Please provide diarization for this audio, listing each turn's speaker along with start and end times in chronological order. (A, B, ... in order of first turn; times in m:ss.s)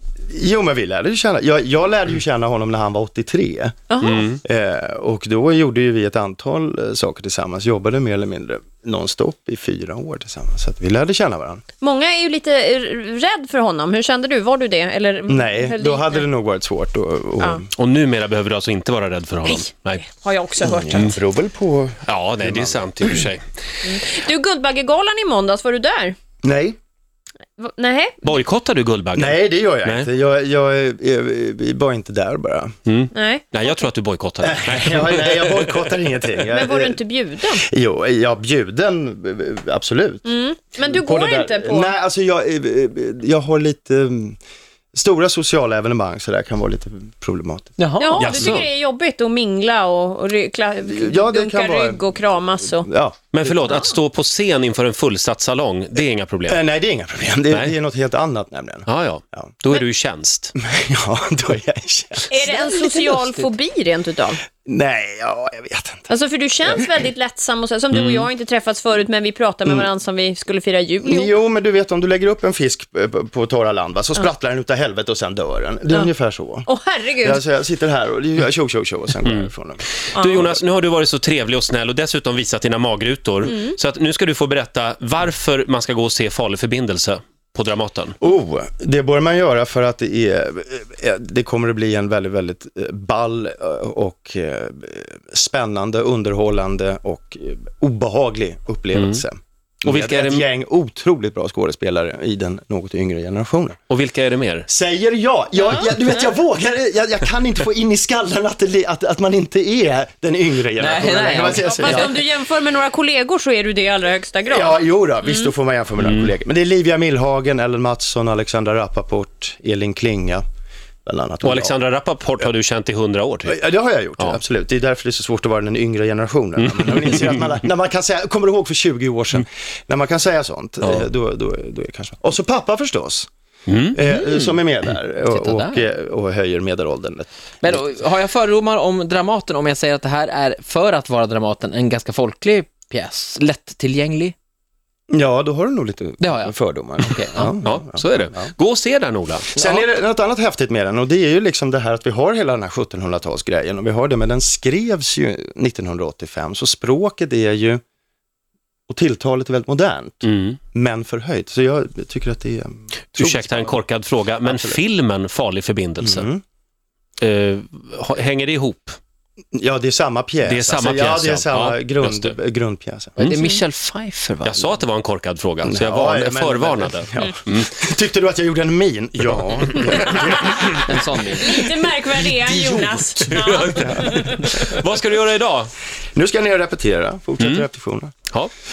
0:00.3-0:11.6 A
0:03.9-0:04.2 B
0:04.0-0:04.4 C
0:11.8-0:16.2 B
0:15.3-0:17.7 A
0:17.8-0:20.0 C
0:19.4-0:21.1 B
0:20.6-0:23.0 A
0:22.1-0:23.4 C
0:23.8-0:26.2 B
0:26.4-0:26.8 A
0:27.6-0:28.2 B
0:28.2-0:30.1 C
0:29.2-0:32.7 A
0:32.9-0:35.9 C
0:33.1-0:33.5 B
0:34.4-0:44.4 A
0:36.5-0:37.6 B
0:40.2-0:41.9 B
0:44.9-0:47.8 A
0:47.8-0:48.6 D
0:48.0-0:52.9 B
0:48.2-0:48.6 C
0:50.9-0:52.1 A
0:52.8-0:53.2 A
0:53.3-0:56.6 C
0:56.5-0:59.5 A
0:58.9-1:00.6 C
1:00.6-1:02.3 A
1:02.3-1:04.4 B
1:02.3-1:03.5 D
1:04.6-1:06.1 A
1:06.1-1:11.3 B
1:07.9-1:08.3 C
1:11.0-1:16.7 A
1:16.7-1:17.4 B
1:17.2-1:20.6 A
1:20.2-1:28.2 C
1:23.5-1:23.8 B
1:28.2-1:43.8 A
1:38.9-1:39.2 C
1:39.8-1:40.5 C
1:43.9-1:44.7 C
1:44.7-1:52.1 A
1:50.8-1:52.3 D
1:51.6-1:55.5 B
1:54.5-2:00.4 A
1:56.0-1:56.3 C
2:01.0-2:01.8 A
2:01.4-2:03.6 C
2:03.4-2:13.3 A
2:06.7-2:07.3 C
2:10.8-2:11.1 C
2:13.7-2:14.0 C
2:13.9-2:17.8 A
2:14.0-2:14.6 D
2:15.3-2:15.9 D
2:17.6-2:24.4 D
2:25.1-2:28.5 A
2:26.2-2:27.7 D
2:27.6-2:29.5 C
2:29.5-2:37.8 A
2:29.6-2:29.9 D
2:38.9-2:43.8 A
2:40.2-2:40.6 C
2:43.1-2:46.3 C
2:44.4-2:44.8 A
2:46.0-2:46.4 A
2:47.2-2:49.0 C
2:49.5-2:53.2 A
2:50.4-2:52.4 C
2:53.2-2:54.8 D
2:53.2-2:53.5 C
2:54.4-2:57.7 C
2:55.6-3:00.8 A
2:59.7-3:00.8 C
3:00.8-3:01.5 D
3:01.4-3:04.5 B
3:01.7-3:03.0 A
3:03.2-3:05.7 C
3:06.2-3:08.1 A
3:07.4-3:07.7 C